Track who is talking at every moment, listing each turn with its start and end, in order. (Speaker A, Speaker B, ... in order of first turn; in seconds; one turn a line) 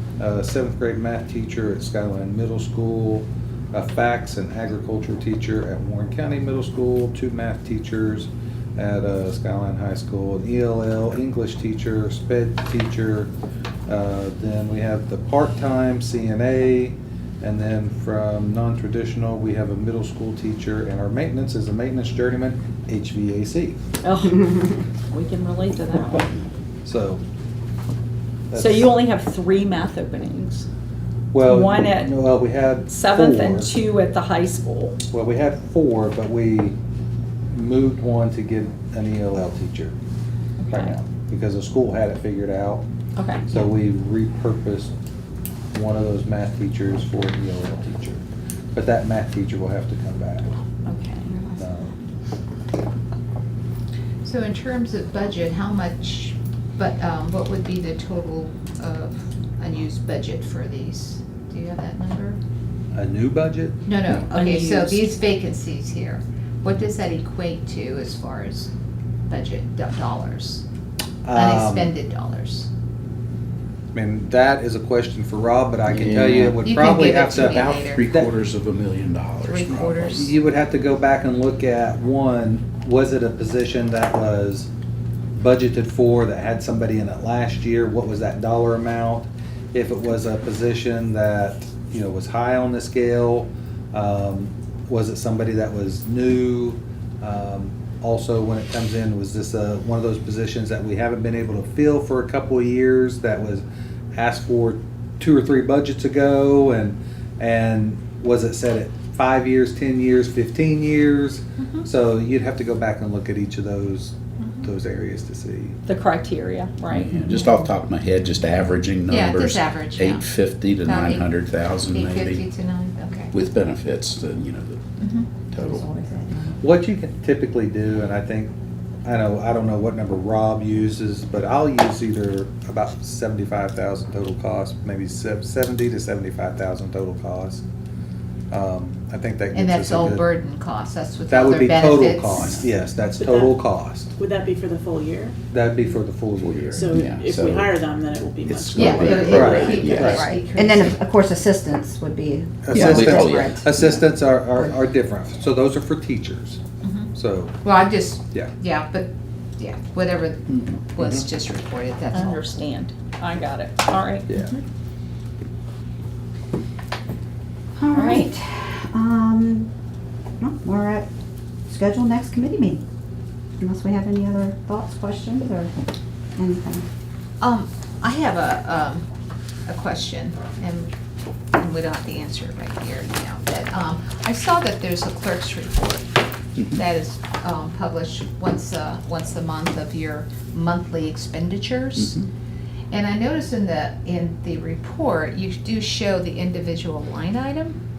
Speaker A: 0.2-13.3
Speaker A: 13.9-23.8
Speaker B: 24.0-26.3
Speaker A: 26.8-27.2
Speaker A: 28.5-28.9
Speaker B: 28.5-30.6
Speaker A: 31.3-33.7
Speaker B: 31.4-32.2
Speaker B: 32.8-35.0
Speaker A: 35.1-36.8
Speaker A: 37.5-40.0
Speaker B: 40.6-40.9
Speaker A: 40.7-42.8
Speaker B: 43.1-43.5
Speaker A: 43.5-44.9
Speaker A: 45.7-50.5
Speaker B: 50.9-51.3
Speaker A: 51.6-51.9
Speaker C: 54.2-62.4
Speaker A: 62.9-63.9
Speaker C: 63.9-68.7
Speaker B: 64.3-65.1
Speaker C: 69.3-70.6
Speaker A: 71.2-71.9
Speaker C: 71.3-72.7
Speaker A: 73.9-78.3
Speaker D: 75.9-76.6
Speaker C: 76.6-78.0
Speaker D: 77.3-80.1
Speaker C: 79.4-80.3
Speaker A: 79.7-84.7
Speaker A: 85.3-115.8
Speaker C: 111.6-111.8
Speaker C: 114.4-114.7
Speaker B: 115.8-117.2
Speaker D: 116.9-122.4
Speaker C: 119.1-120.3
Speaker C: 120.8-123.3
Speaker D: 123.3-124.8
Speaker C: 125.0-125.3
Speaker D: 125.5-125.8
Speaker E: 125.6-126.6
Speaker A: 126.6-128.5
Speaker A: 129.0-137.6
Speaker A: 138.5-140.2
Speaker C: 139.5-142.6
Speaker A: 141.3-144.1
Speaker F: 143.2-143.6
Speaker F: 144.2-145.3
Speaker A: 145.5-147.0
Speaker D: 146.4-147.7
Speaker F: 146.7-150.2
Speaker A: 148.5-150.3
Speaker D: 148.7-150.4
Speaker C: 148.7-150.9
Speaker E: 150.2-153.7
Speaker A: 152.6-156.6
Speaker D: 152.7-154.0
Speaker C: 156.8-157.1
Speaker A: 157.1-157.6
Speaker C: 157.6-162.4
Speaker A: 161.0-161.2
Speaker B: 162.1-164.3
Speaker A: 164.3-164.5
Speaker C: 164.3-164.6
Speaker E: 167.8-169.7
Speaker B: 167.9-168.3
Speaker E: 170.4-171.1
Speaker E: 171.7-172.8
Speaker E: 173.6-175.7
Speaker E: 176.3-176.8
Speaker C: 177.4-179.0
Speaker C: 179.7-180.9
Speaker C: 181.6-192.2
Speaker D: 192.0-192.3
Speaker C: 192.9-197.8